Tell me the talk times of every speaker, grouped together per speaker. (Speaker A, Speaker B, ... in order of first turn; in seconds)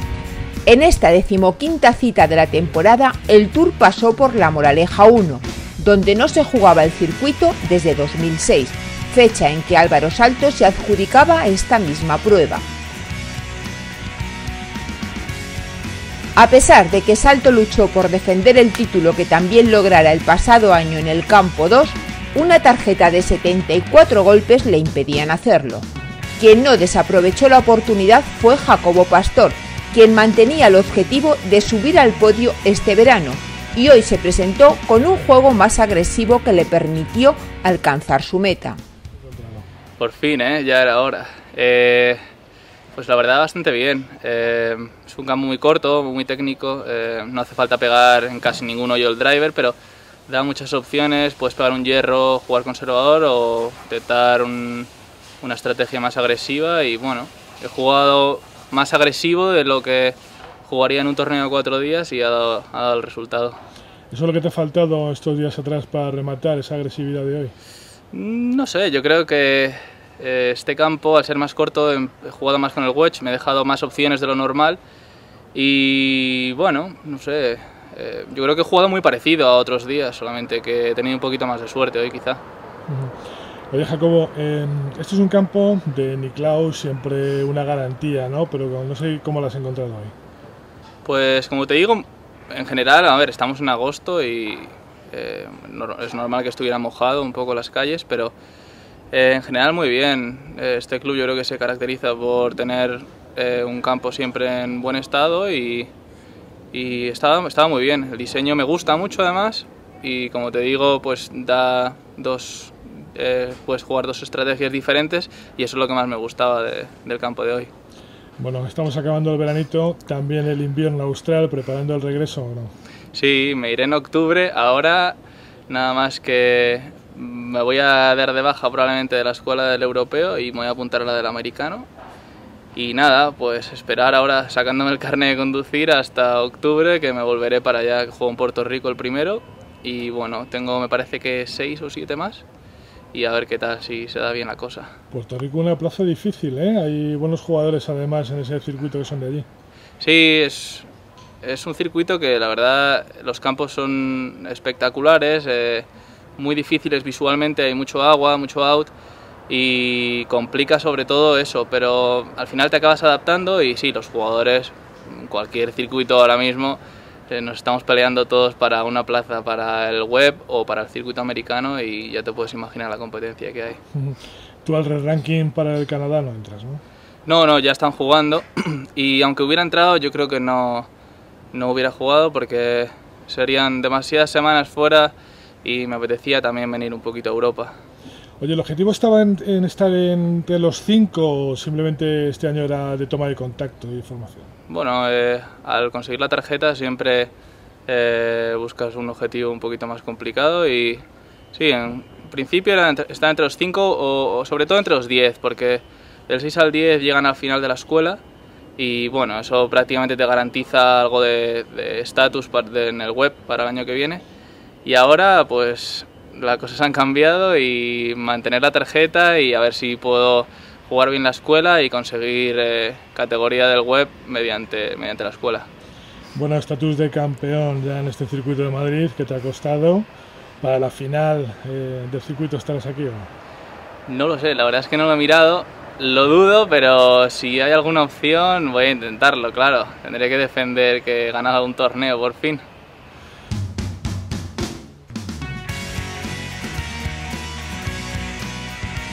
Speaker A: 0.7-12.6, 16.4-25.8, 26.4-38.8
Speaker B: 39.2-39.6, 64.1-67.5, 82.9-83.1, 83.7-90.1, 118.4-122.7, 145.1-149.5, 173.9-176.8, 188.4-194.5, 226.3-230.1, 230.6-233.3
Speaker C: 40.0-42.2, 43.0-49.7, 50.3-54.9, 55.4-63.6, 68.1-74.8, 75.5-82.4, 91.0-98.3, 99.1-105.9, 106.7-117.7, 123.1-125.2, 125.7-131.9, 132.7-142.4, 143.1-144.9, 150.0-150.9, 151.4-155.8, 156.4-158.9, 159.5-173.8, 177.2-180.9, 181.5-185.1, 185.6-187.7, 194.7-197.3, 197.9-201.0, 201.5-208.2, 208.8-214.2, 214.8-225.7, 234.1-242.6